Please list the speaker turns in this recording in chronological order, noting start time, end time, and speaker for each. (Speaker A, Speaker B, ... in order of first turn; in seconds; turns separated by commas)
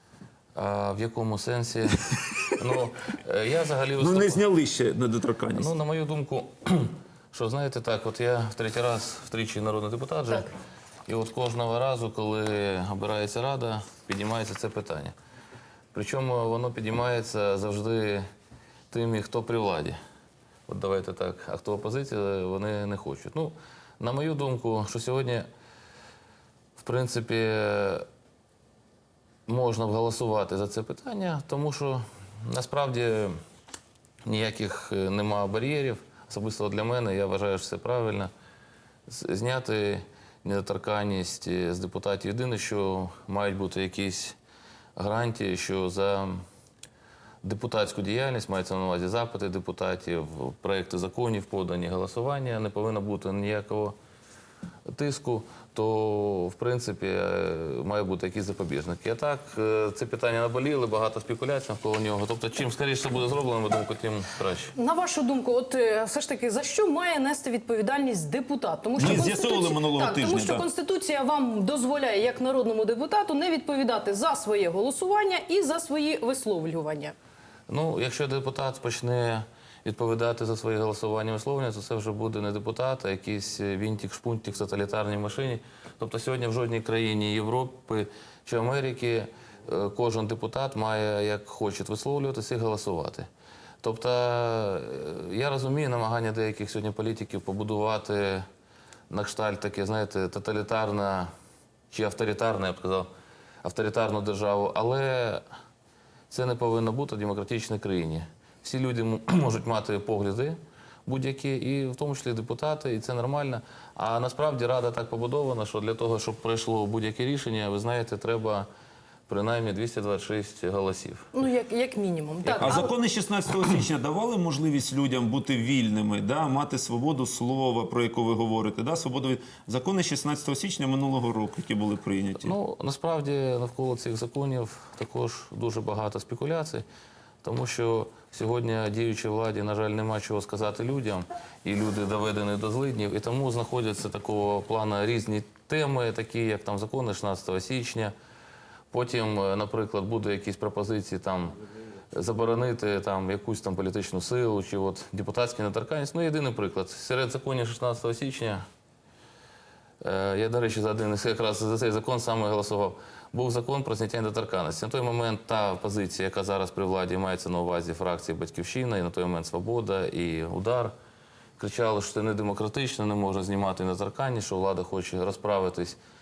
Speaker A: 0.6-2.0, Speaker B: 2.1-2.5, Speaker A: 2.6-4.4, Speaker B: 4.0-5.7, Speaker A: 5.5-10.5, Speaker A: 11.1-15.1, Speaker A: 15.9-18.2, Speaker A: 18.9-19.9, Speaker A: 20.7-25.4, Speaker A: 26.8-28.0, Speaker A: 29.5-33.3, Speaker A: 34.2-38.3, Speaker A: 39.1-44.4, Speaker A: 45.0-46.4, Speaker A: 47.4-53.9, Speaker A: 54.9-64.7, Speaker C: 64.8-77.1, Speaker B: 69.0-70.6, Speaker A: 77.7-93.3, Speaker A: 93.8-98.4, Speaker A: 99.1-101.3, Speaker A: 101.9-103.1, Speaker A: 103.6-105.4, Speaker A: 106.3-118.7, Speaker A: 119.3-121.2, Speaker C: 121.3-122.9, Speaker B: 122.5-132.5, Speaker A: 132.4-136.8, Speaker A: 137.4-148.1, Speaker A: 148.9-151.6, Speaker A: 152.1-158.6, Speaker A: 160.0-170.9, Speaker A: 171.6-176.0